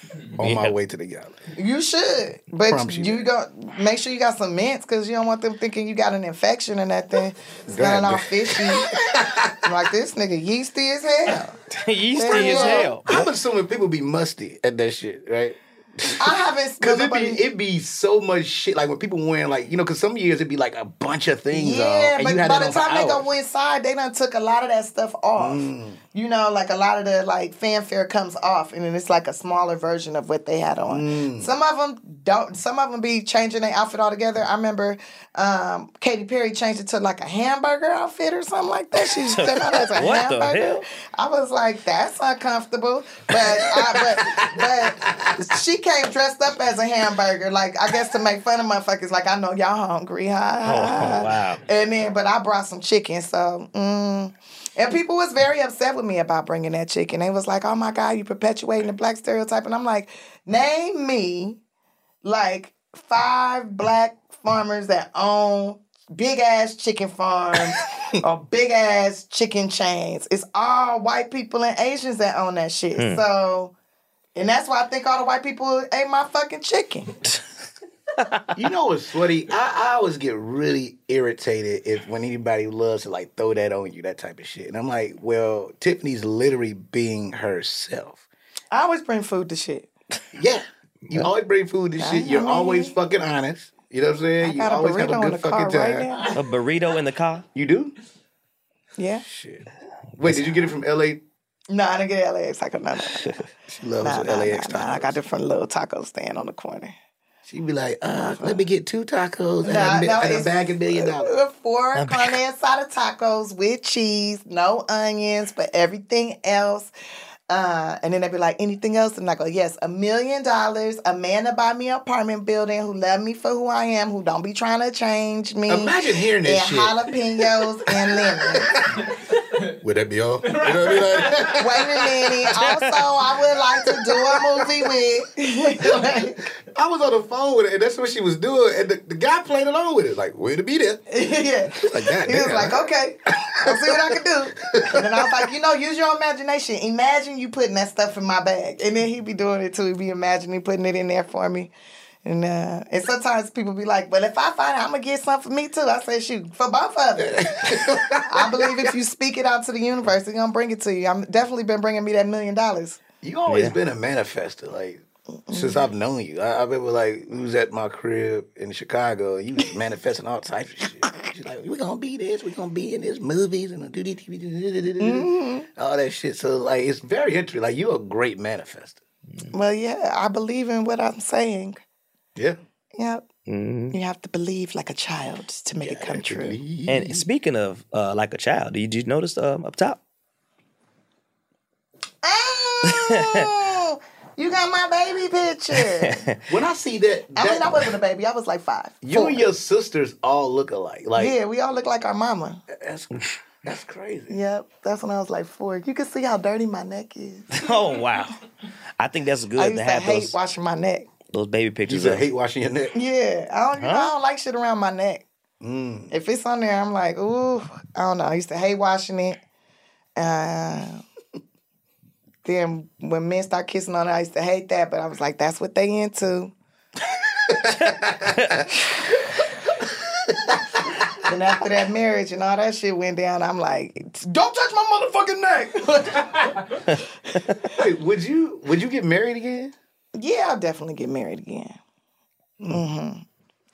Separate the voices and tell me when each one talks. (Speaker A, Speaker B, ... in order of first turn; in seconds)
Speaker A: 0.4-0.8, 11.7-13.1, 39.2-40.8, 50.6-51.6, 73.0-73.2, 96.3-97.5, 100.2-100.6, 111.9-112.4, 132.7-133.1, 163.5-163.8, 183.5-184.0, 186.9-190.0, 192.9-193.5, 195.7-196.4, 207.5-208.3, 209.0-210.3, 211.3-212.2, 213.8-214.1
Speaker B: 0.4-1.4, 2.6-3.3, 7.7-9.6, 12.2-16.2, 16.8-23.3, 25.4-26.0, 30.9-31.5, 44.2-45.3, 78.5-88.2, 90.3-96.2, 97.5-97.9, 99.2-99.7, 100.2-101.2, 103.5-105.2, 107.5-111.3, 125.7-128.8, 129.8-132.6, 134.4-134.7, 135.8-141.0, 141.7-145.5, 157.2-158.9, 163.2-179.0, 185.8-187.2, 196.5-197.8, 199.0-201.3, 202.7-203.1, 203.6-204.3, 211.9-212.9, 215.6-216.1, 227.5-228.7, 229.2-231.2, 237.7-239.7
Speaker C: 1.6-8.9, 9.6-11.5, 12.1-12.9, 16.2-17.4, 21.5-61.6, 62.2-73.7, 74.3-77.1, 88.7-89.9, 92.0-93.0, 94.4-96.3, 99.0-99.2, 101.7-103.3, 104.0-106.9, 108.2-108.6, 109.6-116.9, 117.5-128.7, 131.5-136.4, 141.1-151.7, 152.2-163.0, 165.5-165.8, 175.0-175.7, 179.5-181.8, 183.0-183.2, 183.9-186.6, 192.2-196.2, 197.3-199.5, 201.2-202.6, 204.3-207.5, 209.6-211.1, 212.9-215.2, 216.1-219.4, 220.2-221.0, 222.4-226.5, 231.2-236.4, 240.2-241.8, 242.7-243.2